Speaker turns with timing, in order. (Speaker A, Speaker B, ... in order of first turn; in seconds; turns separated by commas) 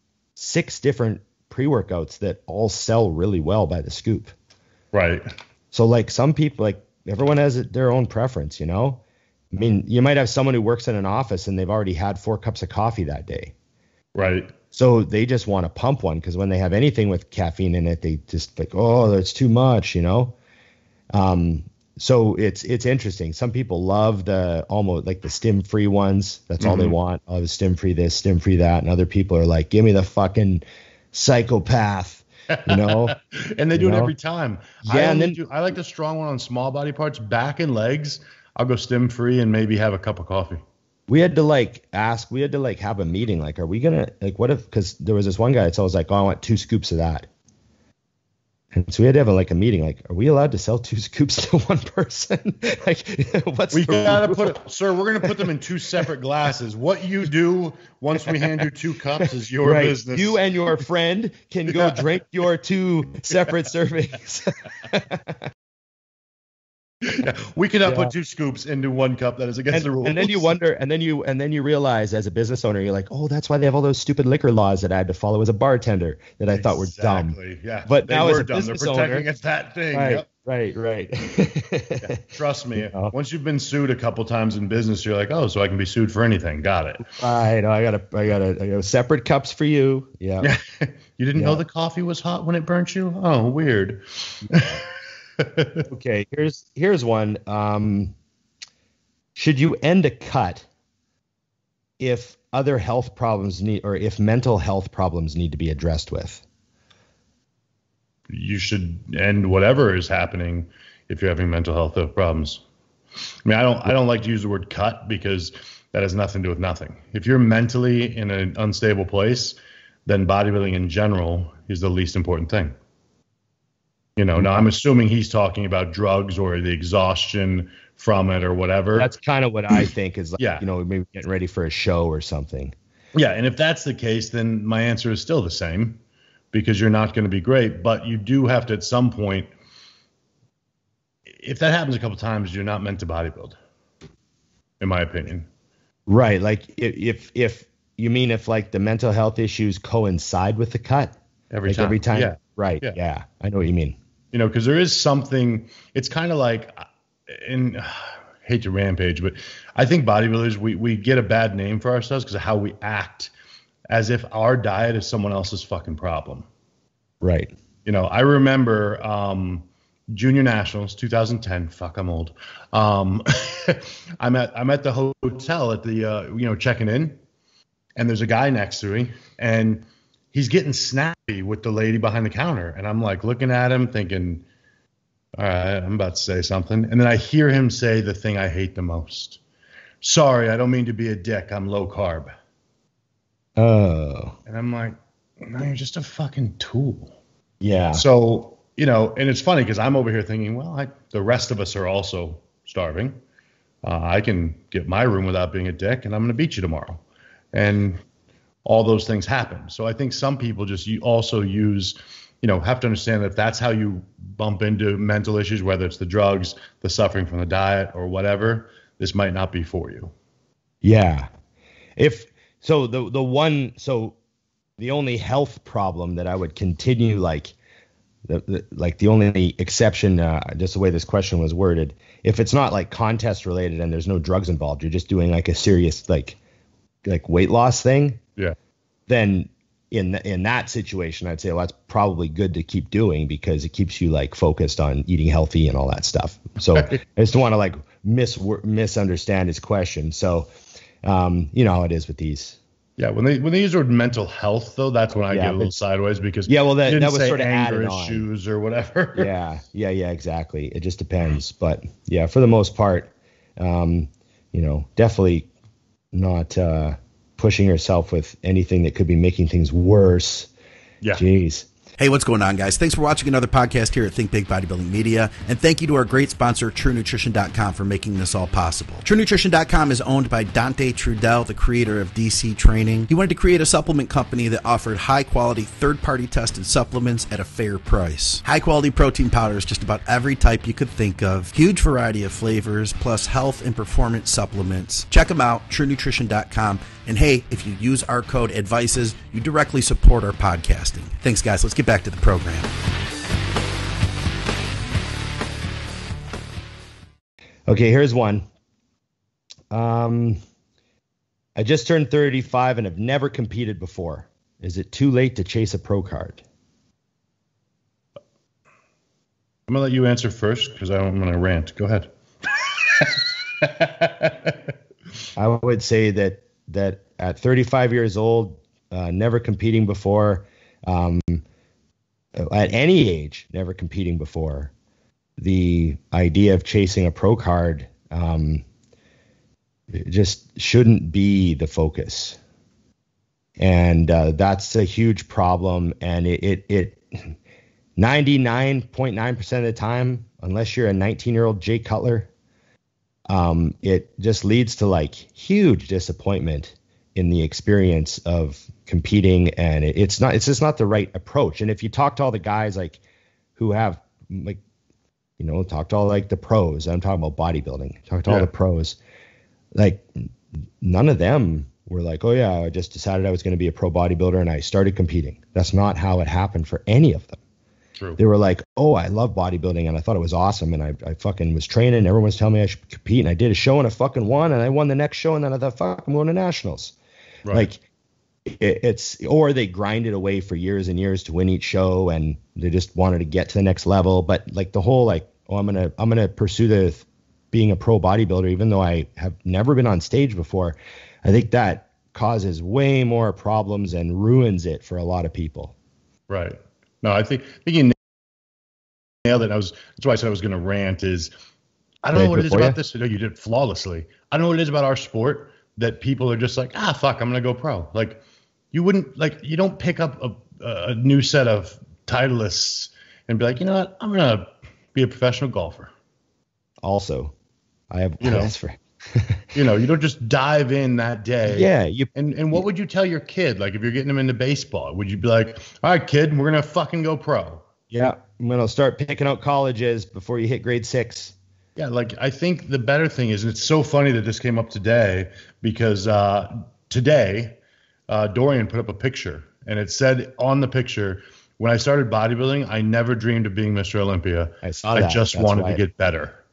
Speaker A: 0.4-4.3, Speaker B: 4.9-5.2, Speaker A: 5.7-9.0, Speaker A: 9.5-13.5, Speaker B: 14.2-14.5, Speaker A: 14.7-20.4, Speaker A: 21.1-33.2, Speaker B: 26.6-27.0, Speaker B: 32.7-40.6, Speaker A: 33.8-34.1, Speaker A: 34.8-35.4, Speaker A: 41.1-47.3, Speaker A: 48.7-54.6, Speaker B: 53.7-60.4, Speaker A: 55.2-55.5, Speaker A: 59.6-65.4, Speaker B: 61.7-62.1, Speaker B: 67.0-70.5, Speaker A: 67.9-68.1, Speaker A: 69.7-77.4, Speaker B: 76.5-80.3, Speaker A: 77.9-79.3, Speaker A: 79.9-82.2, Speaker B: 82.0-87.1, Speaker A: 82.8-83.1, Speaker A: 87.0-90.5, Speaker B: 90.4-94.8, Speaker A: 91.3-91.6, Speaker B: 95.4-95.8, Speaker A: 95.9-98.2, Speaker A: 99.3-100.7, Speaker A: 102.0-106.4, Speaker B: 108.3-112.6, Speaker B: 113.5-122.7, Speaker B: 124.2-129.1, Speaker A: 128.9-132.7, Speaker B: 130.4-130.6, Speaker B: 133.1-136.0, Speaker B: 136.5-139.5, Speaker B: 141.3-143.6, Speaker B: 144.8-145.5, Speaker A: 146.1-151.1, Speaker B: 151.5-153.0, Speaker A: 151.7-154.0, Speaker B: 154.3-163.3, Speaker B: 163.9-166.5, Speaker A: 167.2-167.5, Speaker B: 167.8-177.2, Speaker B: 178.0-184.4, Speaker B: 185.4-189.4, Speaker B: 190.0-192.3, Speaker A: 193.6-194.3, Speaker B: 194.5-197.2, Speaker A: 197.6-198.0, Speaker B: 197.9-203.2, Speaker B: 203.8-207.0, Speaker B: 207.5-208.0, Speaker B: 208.7-220.1, Speaker A: 220.8-221.3, Speaker A: 222.0-224.2, Speaker A: 224.8-227.5, Speaker A: 228.3-236.4, Speaker A: 237.1-238.2, Speaker A: 239.1-250.5, Speaker A: 251.0-252.6, Speaker B: 253.0-259.3, Speaker A: 255.3-255.7, Speaker A: 256.5-258.2, Speaker A: 259.2-265.5, Speaker A: 266.1-270.5, Speaker A: 271.2-271.7, Speaker C: 272.0-302.7, Speaker A: 307.7-308.5, Speaker A: 309.7-310.4, Speaker A: 311.6-316.4, Speaker B: 319.7-324.7, Speaker A: 325.4-331.4, Speaker A: 332.4-334.7, Speaker A: 335.4-338.6, Speaker A: 339.9-342.4, Speaker A: 343.6-347.4, Speaker A: 348.0-352.3, Speaker A: 353.3-363.0, Speaker A: 363.6-364.6, Speaker A: 365.4-369.0, Speaker A: 369.8-370.3, Speaker A: 370.8-377.4, Speaker A: 378.2-386.9, Speaker A: 387.5-387.8, Speaker A: 388.5-405.7, Speaker B: 406.3-408.0, Speaker B: 409.2-411.3, Speaker B: 412.0-425.9, Speaker A: 412.1-412.8, Speaker A: 426.8-427.3, Speaker A: 427.9-429.4, Speaker B: 428.2-428.5, Speaker B: 429.6-437.6, Speaker A: 431.5-432.6, Speaker A: 437.9-441.4, Speaker B: 441.8-456.4, Speaker A: 454.6-455.8